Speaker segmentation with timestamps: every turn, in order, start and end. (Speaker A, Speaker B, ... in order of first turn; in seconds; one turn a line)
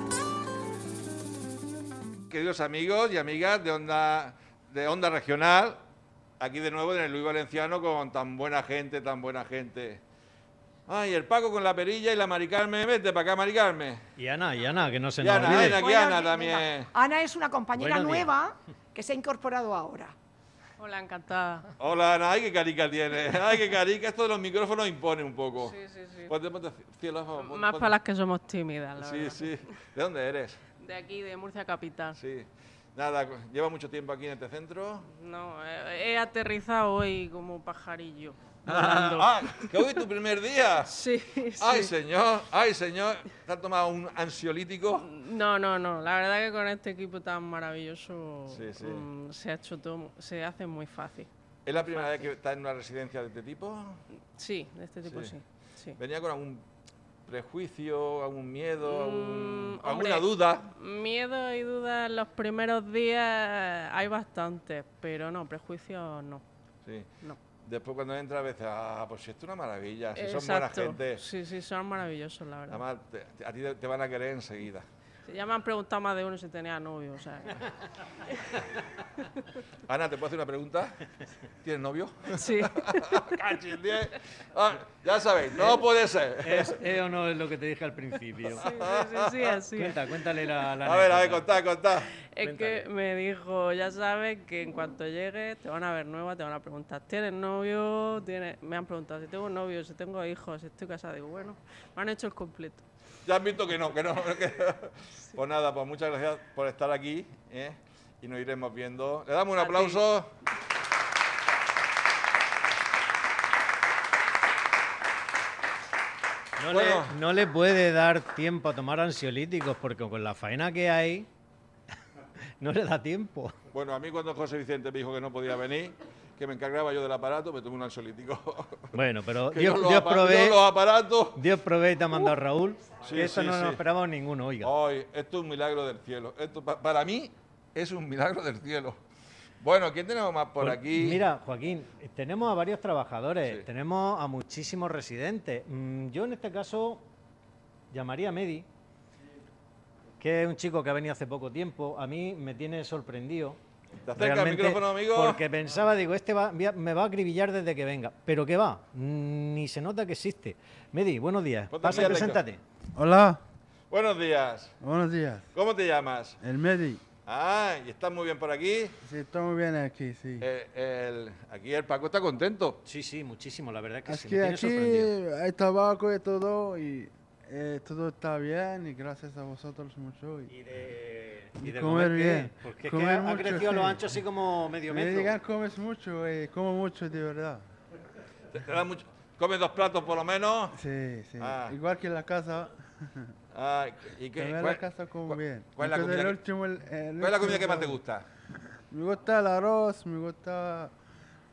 Speaker A: 2.3-5.8
Speaker A: 6.4-10.0
Speaker A: 10.9-14.0
Speaker B: 14.2-15.9
Speaker A: 15.2-16.9
Speaker C: 15.4-20.1
Speaker B: 17.8-18.3
Speaker D: 20.8-21.7
Speaker A: 21.8-25.8
Speaker D: 25.6-26.3
Speaker A: 26.3-27.9
Speaker D: 27.4-29.6
Speaker A: 29.0-30.6
Speaker D: 30.8-32.2
Speaker A: 32.2-35.0
Speaker D: 35.1-39.9
Speaker A: 38.7-40.9
Speaker D: 40.9-41.9
Speaker A: 41.6-45.1
Speaker D: 45.0-52.3
Speaker A: 48.5-49.1
Speaker A: 51.7-54.0
Speaker D: 54.4-56.0
Speaker A: 55.0-55.4
Speaker A: 56.0-56.6
Speaker A: 57.3-60.7
Speaker D: 58.9-66.4
Speaker A: 67.6-71.2
Speaker D: 70.2-72.8
Speaker A: 72.7-74.9
Speaker D: 75.2-77.6
Speaker A: 79.9-81.0
Speaker A: 81.6-86.8
Speaker D: 82.3-83.3
Speaker B: 86.4-88.6
Speaker D: 88.6-90.0
Speaker A: 88.6-89.6
Speaker B: 89.8-91.5
Speaker A: 90.8-92.1
Speaker D: 92.3-102.8
Speaker B: 92.4-92.9
Speaker A: 103.3-110.3
Speaker D: 109.6-110.0
Speaker B: 116.6-121.3
Speaker A: 116.7-117.1
Speaker B: 122.6-123.6
Speaker A: 123.7-128.9
Speaker B: 128.9-130.6
Speaker A: 129.5-131.4
Speaker B: 131.3-134.7
Speaker A: 133.0-133.8
Speaker A: 134.6-139.0
Speaker A: 139.6-141.2
Speaker B: 140.6-147.1
Speaker B: 147.9-148.7
Speaker B: 150.2-153.6
Speaker A: 154.0-155.4
Speaker B: 154.2-162.6
Speaker A: 161.7-162.4
Speaker E: 162.9-163.4
Speaker A: 163.9-164.7
Speaker E: 164.8-165.5
Speaker A: 165.5-166.4
Speaker E: 166.4-167.0
Speaker A: 167.3-168.9
Speaker E: 169.0-170.5
Speaker A: 170.4-172.8
Speaker B: 172.8-175.1
Speaker E: 174.1-180.5
Speaker B: 180.5-185.3
Speaker E: 181.6-184.1
Speaker E: 184.9-187.6
Speaker A: 188.5-190.8
Speaker E: 190.7-192.7
Speaker A: 191.4-191.8
Speaker A: 193.5-196.4
Speaker E: 194.4-198.0
Speaker A: 197.2-198.2
Speaker E: 198.9-200.9